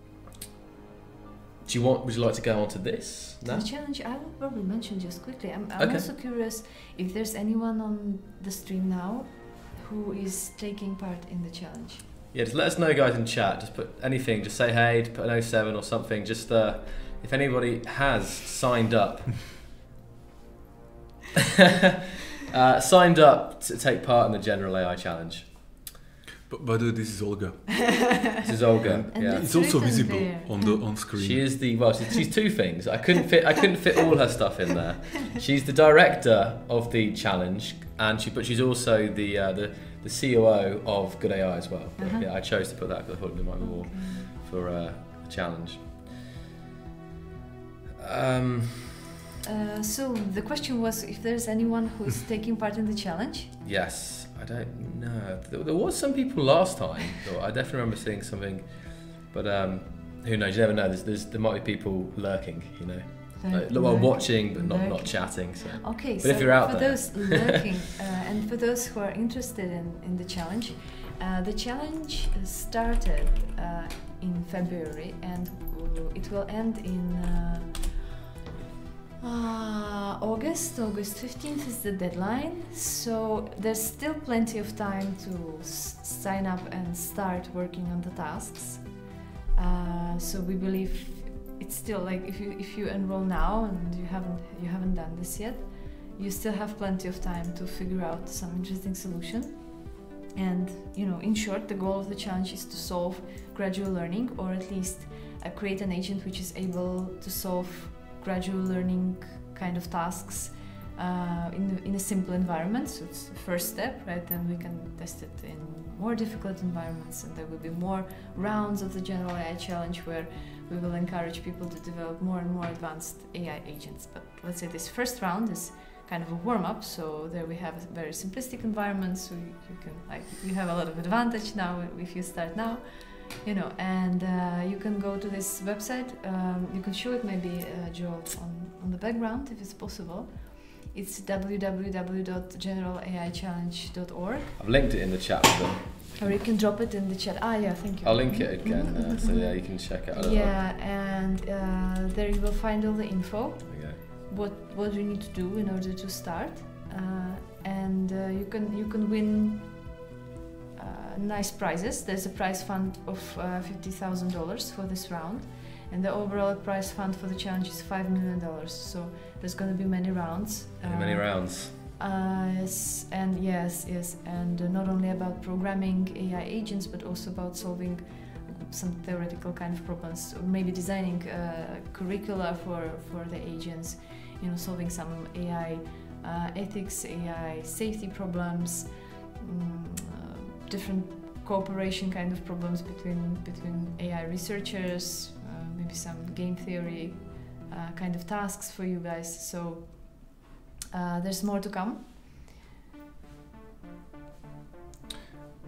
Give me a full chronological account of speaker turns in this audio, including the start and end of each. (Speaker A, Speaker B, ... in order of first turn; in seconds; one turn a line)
Speaker A: 1.6-3.6
Speaker B: 3.4-12.1
Speaker A: 5.8-6.1
Speaker A: 12.3-19.5
Speaker A: 22.4-25.8
Speaker C: 26.5-28.2
Speaker A: 28.4-29.7
Speaker C: 28.8-31.7
Speaker B: 29.1-30.9
Speaker A: 31.1-46.1
Speaker B: 42.0-42.3
Speaker B: 43.6-44.3
Speaker A: 48.0-49.0
Speaker B: 49.4-53.5
Speaker A: 53.6-67.6
Speaker B: 63.4-78.1
Speaker B: 79.2-144.6
Speaker A: 144.6-146.4
Speaker B: 146.2-159.9
Speaker A: 148.0-150.6
Speaker A: 153.7-154.0
Speaker B: 160.8-202.1
Speaker A: 170.8-171.7